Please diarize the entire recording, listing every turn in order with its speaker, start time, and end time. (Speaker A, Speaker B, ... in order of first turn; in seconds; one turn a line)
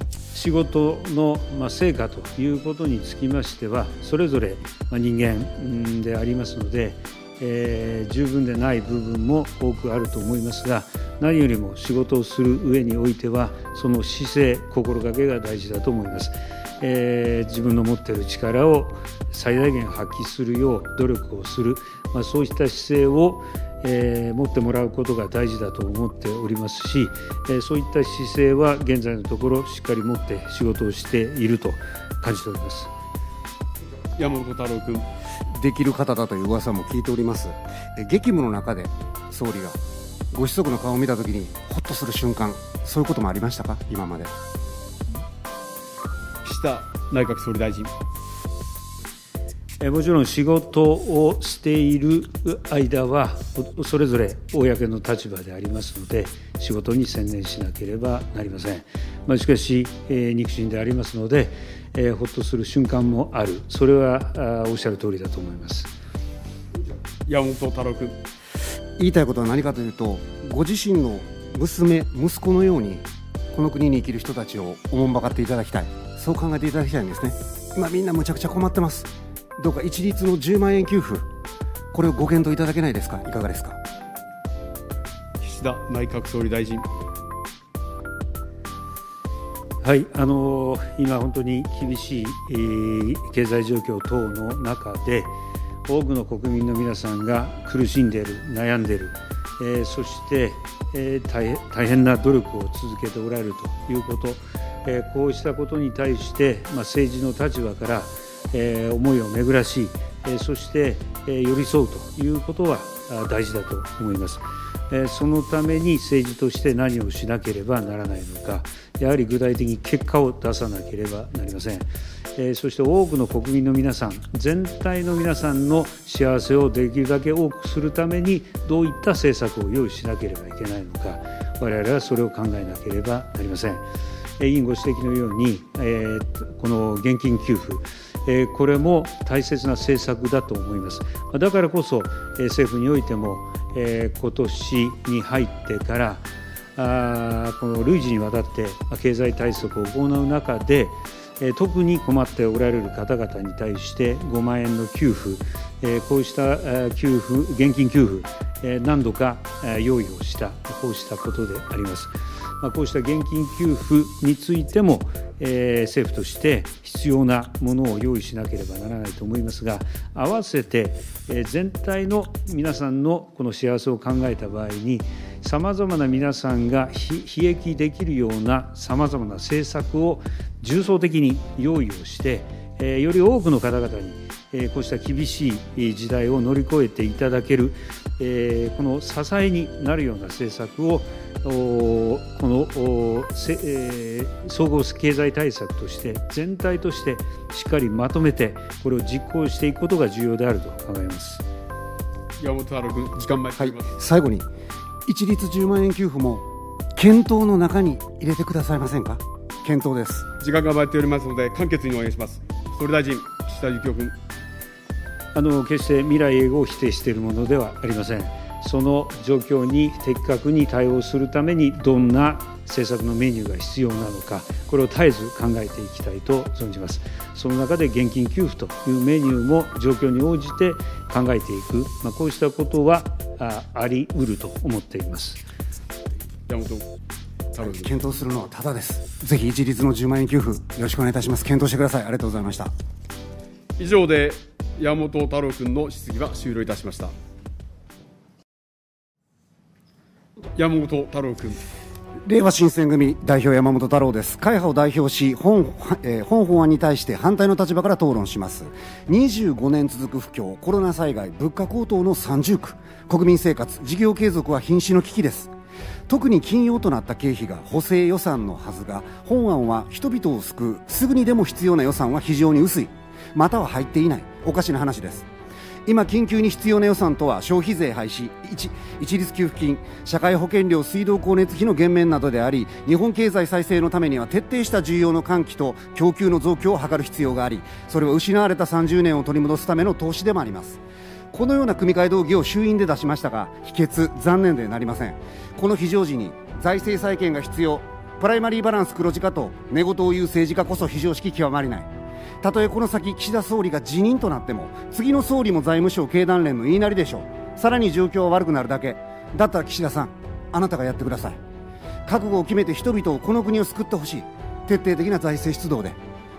Speaker A: 0.3-32.9
Speaker B: 34.2-35.0
Speaker C: 35.5-39.8
Speaker C: 40.3-44.3
Speaker B: 46.4-47.9
Speaker A: 49.8-65.9
Speaker B: 67.3-68.2
Speaker C: 69.0-81.3
Speaker C: 81.9-83.8
Speaker B: 85.4-86.9
Speaker A: 89.8-95.3
Speaker A: 95.9-133.8
Speaker A: 134.4-201.4
Speaker B: 202.4-203.9
Speaker C: 203.6-204.5
Speaker C: 205.1-206.4
Speaker C: 207.0-210.3
Speaker B: 210.4-214.2
Speaker A: 215.3-235.4
Speaker B: 236.5-236.9
Speaker B: 237.6-237.9
Speaker C: 237.6-242.7
Speaker B: 243.8-247.1
Speaker B: 250.6-251.6
Speaker C: 252.2-265.5
Speaker C: 266.1-275.3
Speaker C: 275.9-301.9
Speaker C: 302.4-311.4
Speaker C: 312.1-316.0